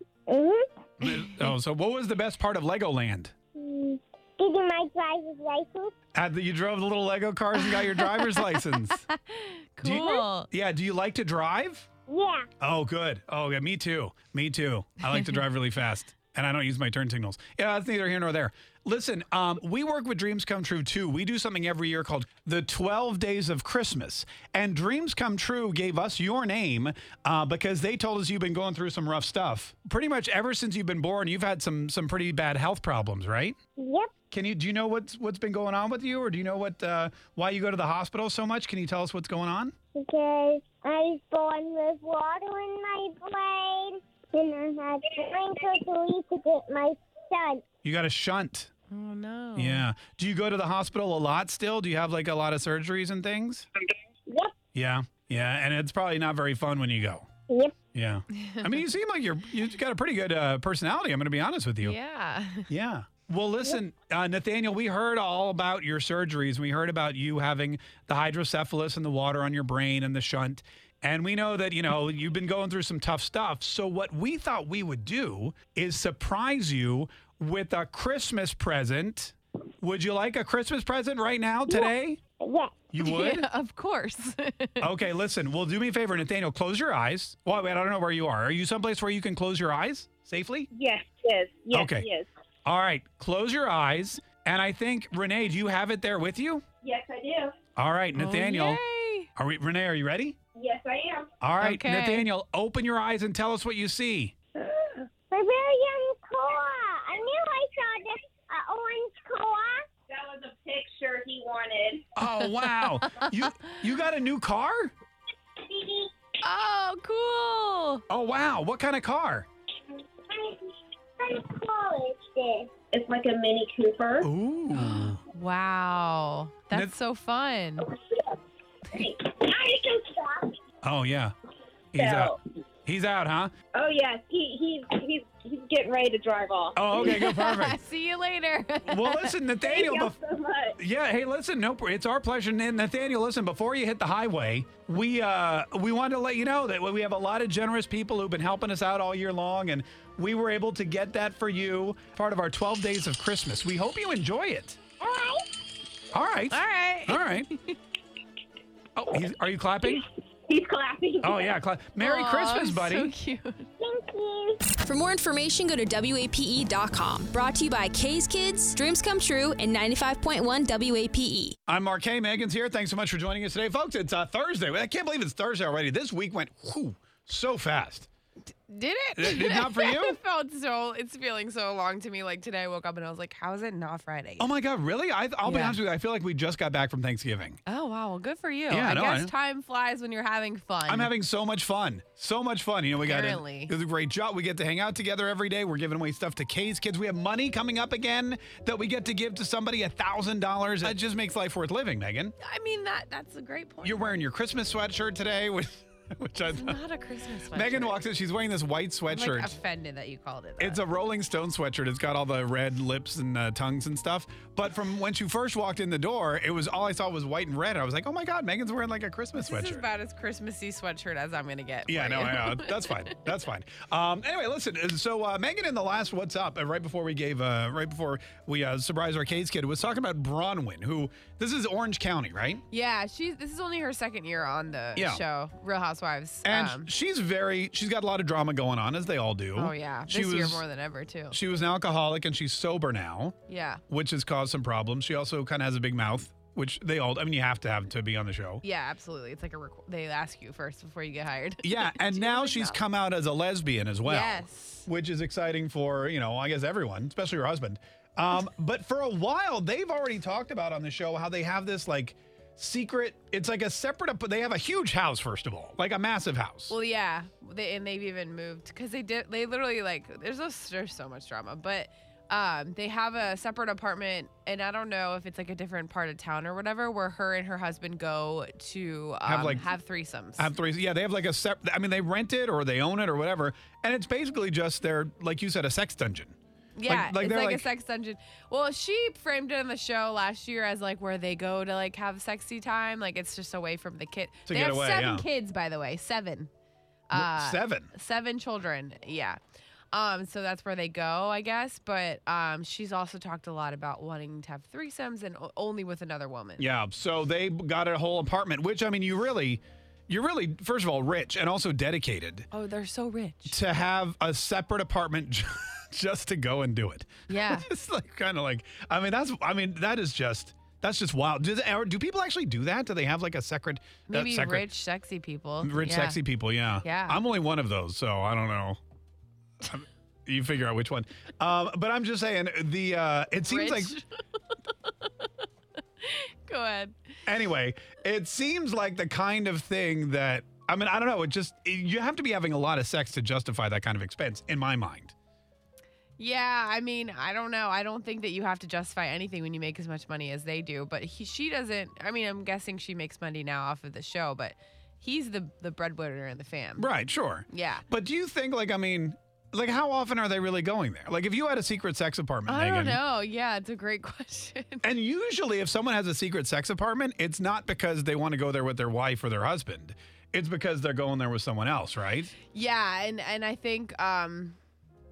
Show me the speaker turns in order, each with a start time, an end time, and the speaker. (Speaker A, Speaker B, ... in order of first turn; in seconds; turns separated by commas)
Speaker A: 0.3-0.6, Speaker B: 1.0-3.3, Speaker A: 3.5-5.9, Speaker B: 6.1-9.0, Speaker C: 7.6-10.5, Speaker B: 9.8-11.9, Speaker A: 12.1-12.5, Speaker B: 12.6-33.5, Speaker A: 33.8-34.1, Speaker B: 34.3-39.7, Speaker A: 39.9-47.6, Speaker B: 47.8-48.7, Speaker C: 48.9-49.9, Speaker B: 49.5-53.7, Speaker A: 54.3-54.5, Speaker B: 54.7-57.2, Speaker B: 57.9-62.0, Speaker C: 58.4-58.6, Speaker C: 61.8-62.7, Speaker B: 62.7-82.2, Speaker A: 82.4-82.8, Speaker B: 82.9-83.5, Speaker C: 83.0-85.0, Speaker B: 84.8-90.7, Speaker D: 90.7-92.3, Speaker B: 91.7-92.1, Speaker B: 92.7-96.6, Speaker D: 96.8-97.5, Speaker B: 97.8-98.8, Speaker C: 98.1-99.3, Speaker B: 99.3-100.3, Speaker D: 100.5-101.3, Speaker B: 101.4-104.3, Speaker C: 101.6-102.3, Speaker A: 104.6-109.8, Speaker D: 110.1-112.0, Speaker B: 112.2-114.9, Speaker C: 113.2-113.5, Speaker A: 115.7-116.1, Speaker C: 116.4-118.0, Speaker B: 118.1-119.5, Speaker A: 120.3-120.6, Speaker A: 121.2-122.7, Speaker D: 122.9-124.3, Speaker B: 124.2-125.2, Speaker C: 124.7-127.9, Speaker D: 129.0-130.5, Speaker B: 130.8-131.3, Speaker B: 131.9-133.5, Speaker D: 132.0-132.4, Speaker D: 133.8-136.8, Speaker B: 136.7-137.8, Speaker C: 136.9-139.3, Speaker B: 138.8-140.2, Speaker D: 139.6-140.8, Speaker B: 140.8-154.8, Speaker A: 155.0-155.4, Speaker B: 156.1-157.5, Speaker C: 156.5-157.8, Speaker B: 158.9-160.0, Speaker D: 160.5-161.5, Speaker B: 161.2-163.1, Speaker C: 162.0-163.7, Speaker A: 163.8-164.6, Speaker E: 164.8-171.6, Speaker B: 171.7-178.1, Speaker C: 178.7-184.5, Speaker B: 179.2-180.2, Speaker B: 184.4-187.6, Speaker C: 185.4-185.8, Speaker C: 187.7-191.1, Speaker B: 188.7-189.3, Speaker B: 190.9-202.3, Speaker C: 193.0-193.7, Speaker C: 202.4-204.2, Speaker B: 203.8-206.8, Speaker C: 206.5-208.0, Speaker B: 207.5-209.5, Speaker C: 209.1-210.8, Speaker B: 210.6-219.8, Speaker C: 219.3-223.1, Speaker B: 221.9-232.6, Speaker C: 232.7-236.9, Speaker B: 234.9-235.2, Speaker B: 236.4-240.6, Speaker C: 239.5-241.4, Speaker B: 241.3-243.3, Speaker C: 243.5-243.8, Speaker B: 243.9-248.6, Speaker C: 248.6-252.8, Speaker B: 251.6-266.7, Speaker C: 254.0-254.9, Speaker C: 266.7-280.5, Speaker B: 279.2-279.7, Speaker B: 280.4-287.7, Speaker C: 286.8-296.5, Speaker B: 294.5-295.2, Speaker C: 297.1-299.4, Speaker B: 297.1-297.9, Speaker C: 299.9-306.6, Speaker B: 306.6-312.5, Speaker C: 312.5-313.6, Speaker B: 313.5-324.7, Speaker C: 317.3-317.7, Speaker C: 324.1-326.2, Speaker B: 325.6-328.8, Speaker C: 326.8-327.2, Speaker B: 329.6-334.0, Speaker C: 333.4-334.1, Speaker C: 336.0-336.9, Speaker B: 337.3-345.1, Speaker C: 346.2-356.9, Speaker B: 356.8-363.0, Speaker C: 357.5-357.8, Speaker C: 362.5-364.9, Speaker B: 364.8-372.3, Speaker C: 372.5-374.6